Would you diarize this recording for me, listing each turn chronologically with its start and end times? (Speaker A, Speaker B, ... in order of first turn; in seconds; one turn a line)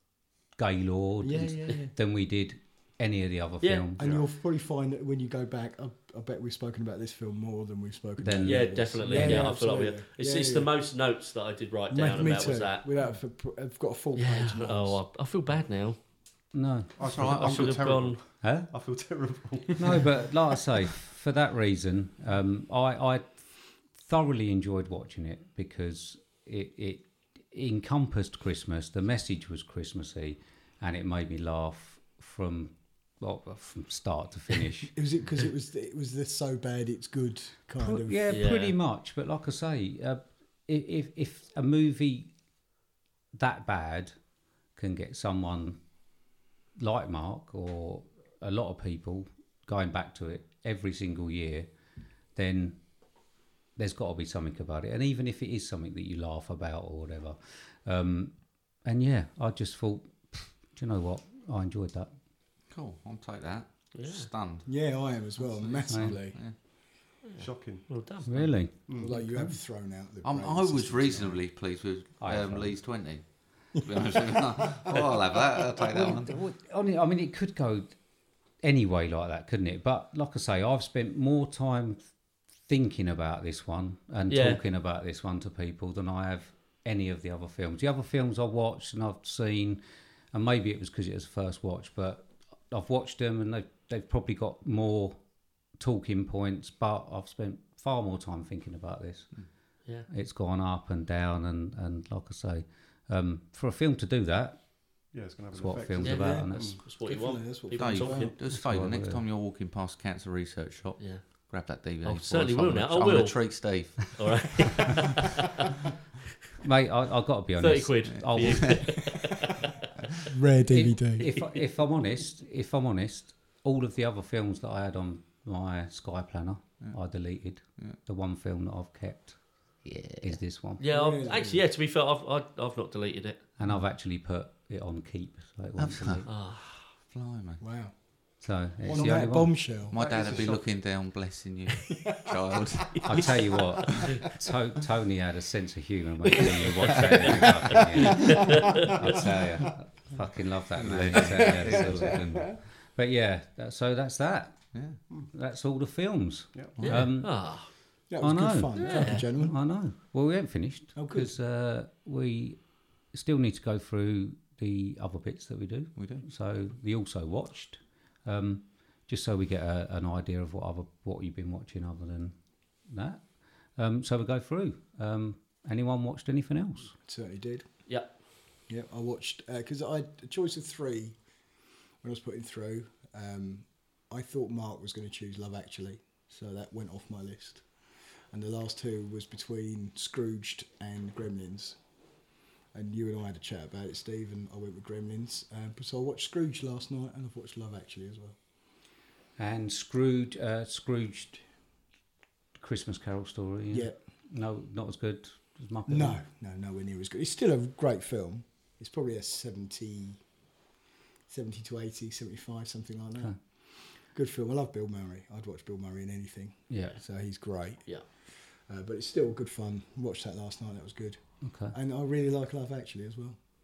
Speaker A: 0.5-4.1
Speaker B: 1.2-1.9
Speaker C: 3.6-3.9
Speaker B: 4.0-10.8
Speaker A: 8.2-9.5
Speaker C: 8.4-12.9
Speaker B: 11.9-15.0
Speaker C: 14.2-16.0
Speaker A: 16.5-17.6
Speaker D: 17.0-20.3
Speaker E: 17.0-17.9
Speaker C: 17.4-18.2
Speaker A: 18.3-18.7
Speaker A: 19.8-34.9
Speaker B: 34.9-38.4
Speaker A: 37.8-42.3
Speaker C: 38.3-38.7
Speaker A: 43.3-44.2
Speaker A: 44.7-45.8
Speaker A: 46.8-51.7
Speaker A: 52.3-52.8
Speaker A: 53.8-62.1
Speaker E: 62.7-66.5
Speaker C: 63.9-64.3
Speaker B: 64.7-66.6
Speaker A: 65.9-66.2
Speaker C: 67.2-68.5
Speaker D: 67.4-68.2
Speaker A: 68.2-69.1
Speaker D: 68.8-69.5
Speaker B: 69.0-71.4
Speaker E: 70.2-76.3
Speaker A: 72.2-72.8
Speaker B: 73.8-74.4
Speaker A: 75.9-78.0
Speaker A: 78.6-99.5
Speaker C: 84.3-84.6
Speaker A: 100.1-104.7
Speaker D: 105.1-106.8
Speaker A: 105.5-106.8
Speaker C: 106.0-108.3
Speaker B: 106.1-108.3
Speaker E: 107.8-114.2
Speaker A: 108.4-109.2
Speaker C: 111.0-115.3
Speaker A: 116.6-119.0
Speaker C: 117.6-119.4
Speaker E: 118.1-118.9
Speaker B: 120.3-121.3
Speaker A: 120.7-129.5
Speaker C: 121.2-121.5
Speaker E: 126.8-128.0
Speaker E: 129.8-130.4
Speaker A: 130.2-130.8
Speaker C: 130.8-133.5
Speaker B: 130.8-131.7
Speaker A: 133.6-136.3
Speaker E: 135.8-137.6
Speaker C: 136.3-136.9
Speaker B: 137.6-140.7
Speaker A: 138.4-139.8
Speaker E: 139.0-143.1
Speaker D: 140.2-140.4
Speaker A: 143.1-157.7
Speaker C: 148.1-148.4
Speaker E: 150.7-152.2
Speaker B: 151.3-152.6
Speaker E: 154.7-155.0
Speaker D: 156.5-156.9
Speaker E: 156.8-157.1
Speaker C: 156.8-157.7
Speaker B: 158.1-159.6
Speaker A: 158.2-176.9
Speaker C: 158.8-159.3
Speaker B: 160.9-161.3
Speaker E: 165.9-166.2
Speaker B: 177.0-177.9
Speaker B: 178.7-181.2
Speaker B: 182.0-187.7
Speaker B: 188.3-191.8
Speaker B: 192.7-198.4
Speaker A: 199.4-201.4
Speaker A: 202.6-206.2
Speaker B: 203.7-203.9
Speaker B: 205.9-210.2
Speaker B: 211.3-223.4
Speaker A: 216.7-216.9
Speaker A: 221.4-221.8